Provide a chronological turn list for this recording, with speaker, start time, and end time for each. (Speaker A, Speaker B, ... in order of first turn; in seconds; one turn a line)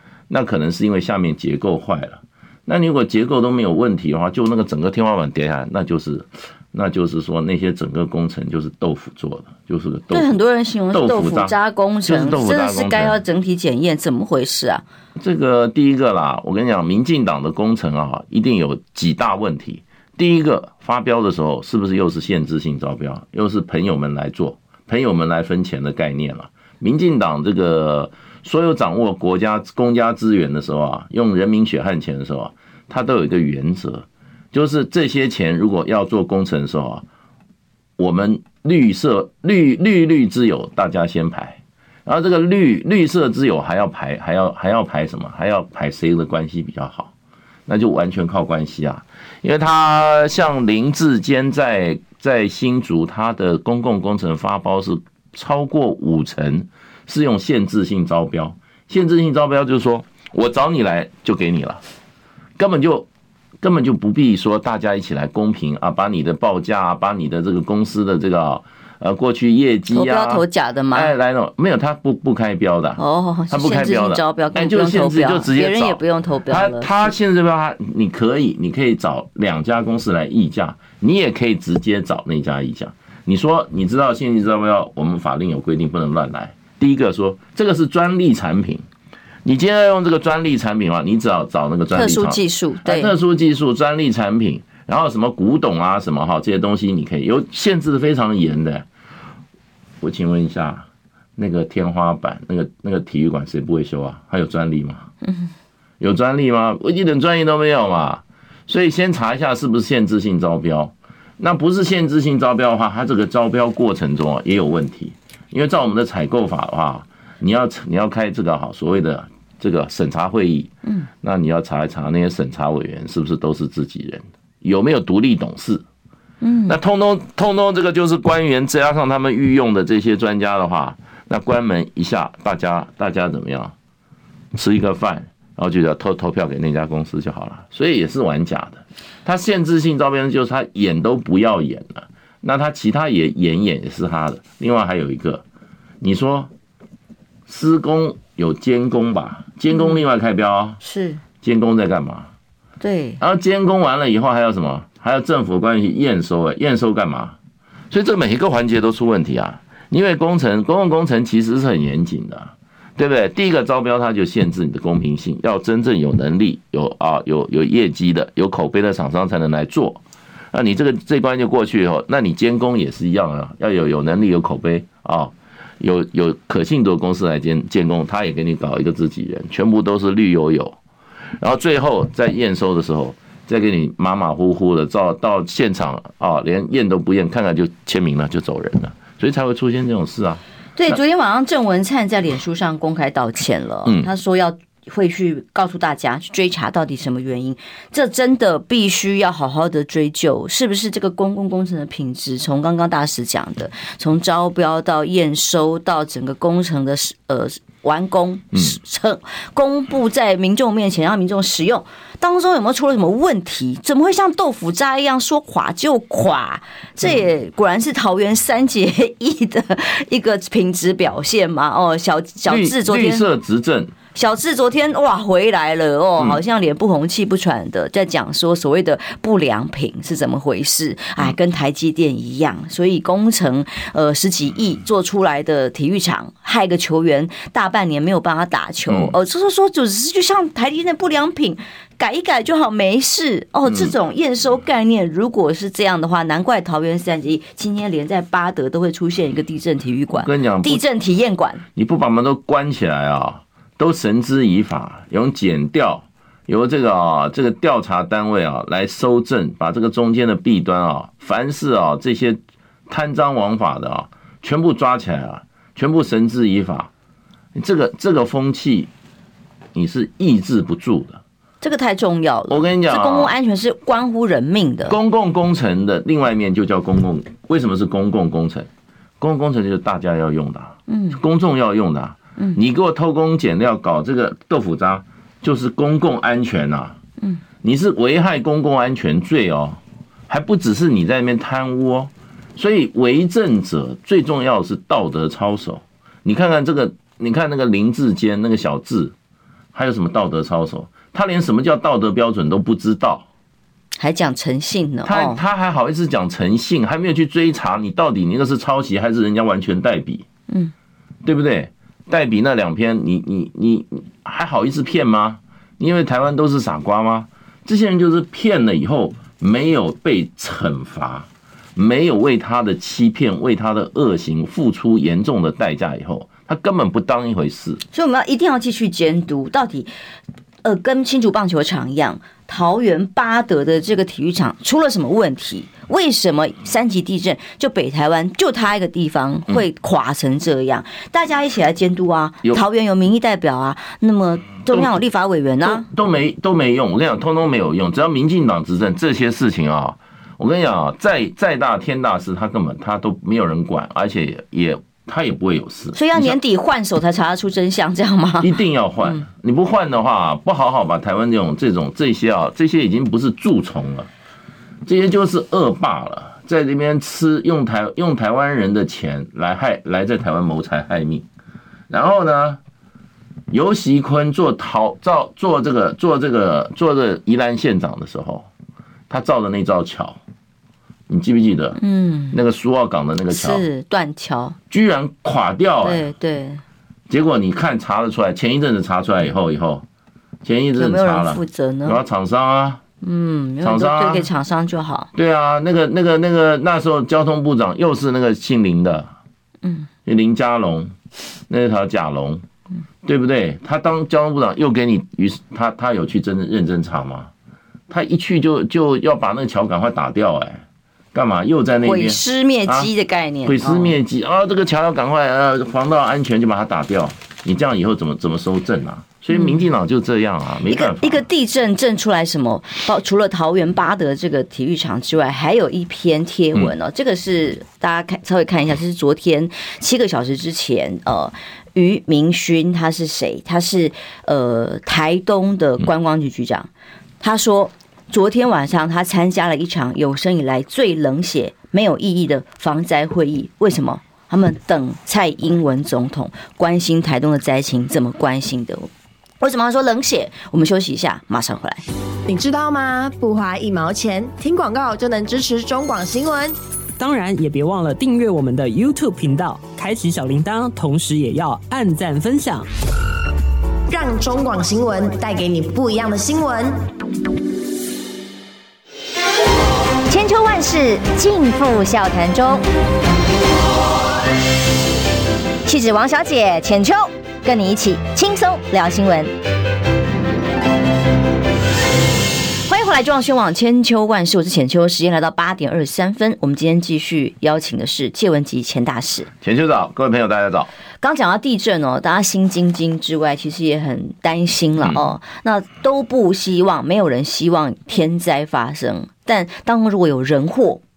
Speaker A: 0.3-10.3
Speaker B: 10.1-14.8
Speaker A: 10.9-11.5
Speaker A: 12.1-13.2
Speaker A: 15.2-37.0
Speaker A: 38.0-47.1
Speaker A: 47.7-61.8
Speaker A: 62.6-63.1
Speaker A: 63.6-88.8
Speaker B: 69.9-71.1
Speaker B: 73.0-77.1
Speaker A: 89.4-98.8
Speaker B: 91.9-93.1
Speaker A: 100.0-100.8
Speaker A: 101.4-105.1
Speaker B: 105.2-105.5
Speaker A: 106.0-125.8
Speaker B: 126.4-126.8
Speaker A: 126.7-133.7
Speaker A: 134.5-145.4
Speaker A: 146.0-146.5
Speaker A: 147.5-150.8
Speaker B: 149.7-150.0
Speaker B: 150.8-151.2
Speaker A: 151.4-152.3
Speaker B: 152.8-153.2
Speaker A: 153.2-157.3
Speaker A: 157.9-180.8
Speaker A: 181.4-191.0
Speaker B: 190.8-223.2
Speaker A: 222.5-223.9
Speaker B: 224.1-251.6
Speaker A: 238.9-239.1
Speaker A: 243.7-243.9
Speaker A: 250.1-250.8
Speaker A: 251.8-262.4
Speaker A: 262.9-266.9
Speaker A: 267.5-268.9
Speaker A: 269.7-271.2
Speaker B: 271.6-274.9
Speaker A: 272.5-273.3
Speaker A: 274.9-278.7
Speaker A: 279.2-287.0
Speaker B: 280.9-281.2
Speaker A: 287.6-299.1
Speaker A: 299.7-303.2
Speaker B: 304.0-305.4
Speaker A: 305.0-310.2
Speaker A: 311.2-327.8
Speaker B: 327.9-329.9
Speaker B: 330.6-345.9
Speaker A: 344.7-344.9
Speaker A: 345.6-356.4
Speaker B: 355.9-358.5
Speaker A: 358.4-364.1
Speaker A: 364.9-371.2
Speaker A: 371.9-372.6
Speaker A: 373.5-378.5
Speaker A: 379.1-380.2
Speaker A: 381.1-381.8
Speaker B: 381.8-382.4
Speaker A: 382.3-383.6
Speaker B: 383.3-384.6
Speaker A: 384.7-386.1
Speaker B: 385.8-386.6
Speaker A: 387.1-389.8
Speaker A: 390.4-392.8
Speaker B: 390.8-392.0
Speaker B: 393.0-395.1
Speaker A: 393.6-394.3
Speaker A: 395.1-399.1
Speaker A: 400.0-400.9
Speaker A: 401.5-402.4
Speaker A: 403.0-407.3
Speaker A: 407.9-412.9
Speaker B: 411.8-413.9
Speaker A: 413.4-421.2
Speaker B: 419.3-419.6
Speaker B: 420.7-436.7
Speaker B: 437.2-448.9
Speaker B: 449.4-451.8
Speaker C: 452.3-456.6
Speaker D: 457.0-462.7
Speaker C: 463.9-466.8
Speaker B: 470.1-472.6
Speaker B: 475.6-479.3
Speaker B: 482.6-489.3
Speaker A: 489.4-490.7
Speaker B: 491.0-500.8
Speaker A: 494.8-495.0